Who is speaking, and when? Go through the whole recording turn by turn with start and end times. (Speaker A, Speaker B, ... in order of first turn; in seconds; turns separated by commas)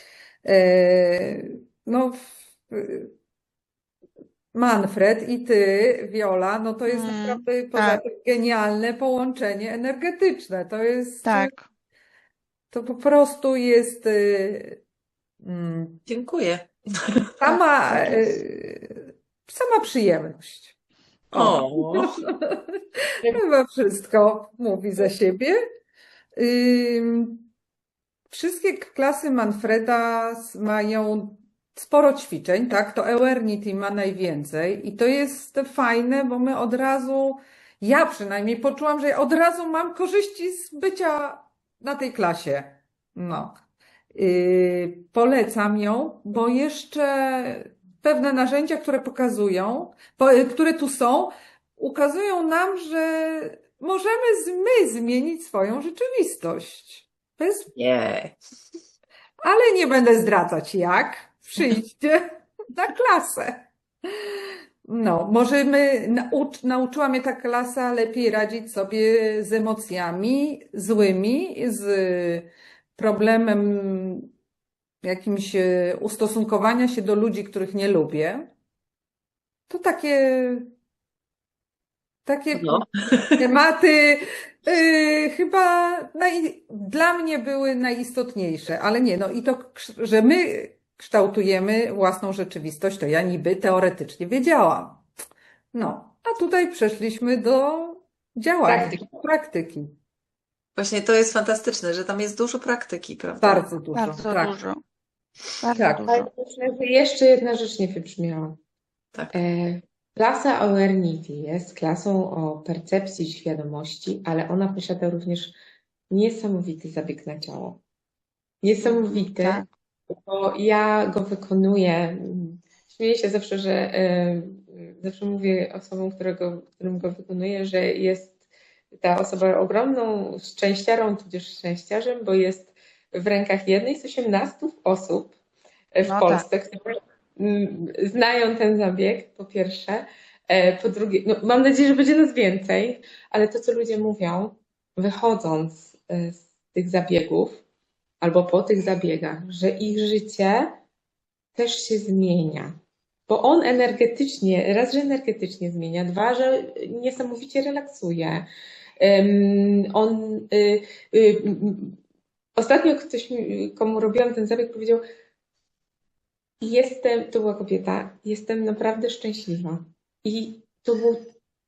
Speaker A: 0.4-3.1, Speaker A: 4.5-11.5, Speaker B: 6.9-8.0, Speaker B: 11.2-11.6, Speaker A: 12.7-14.8, Speaker A: 15.4-16.0, Speaker C: 16.1-17.6, Speaker A: 17.4-20.7, Speaker C: 21.3-22.1, Speaker A: 21.3-25.6, Speaker A: 26.4-27.5, Speaker A: 28.3-43.6, Speaker A: 44.1-57.7, Speaker C: 57.7-58.4, Speaker A: 59.4-74.3, Speaker A: 75.0-78.5, Speaker A: 79.7-80.7, Speaker A: 82.2-95.0, Speaker C: 82.5-83.4, Speaker A: 95.7-100.0, Speaker D: 98.6-99.0, Speaker C: 100.8-103.7, Speaker A: 103.4-104.5, Speaker B: 103.9-104.8, Speaker B: 105.6-106.3, Speaker A: 105.8-106.1, Speaker D: 106.1-108.6, Speaker D: 109.3-115.5, Speaker D: 116.1-117.8, Speaker D: 118.6-128.3, Speaker B: 118.8-119.7, Speaker D: 128.9-135.3, Speaker D: 135.9-147.6, Speaker B: 136.1-136.4, Speaker D: 148.2-150.8, Speaker D: 151.6-152.7, Speaker D: 153.3-158.5, Speaker D: 159.0-162.0, Speaker D: 162.5-165.0, Speaker D: 166.6-171.3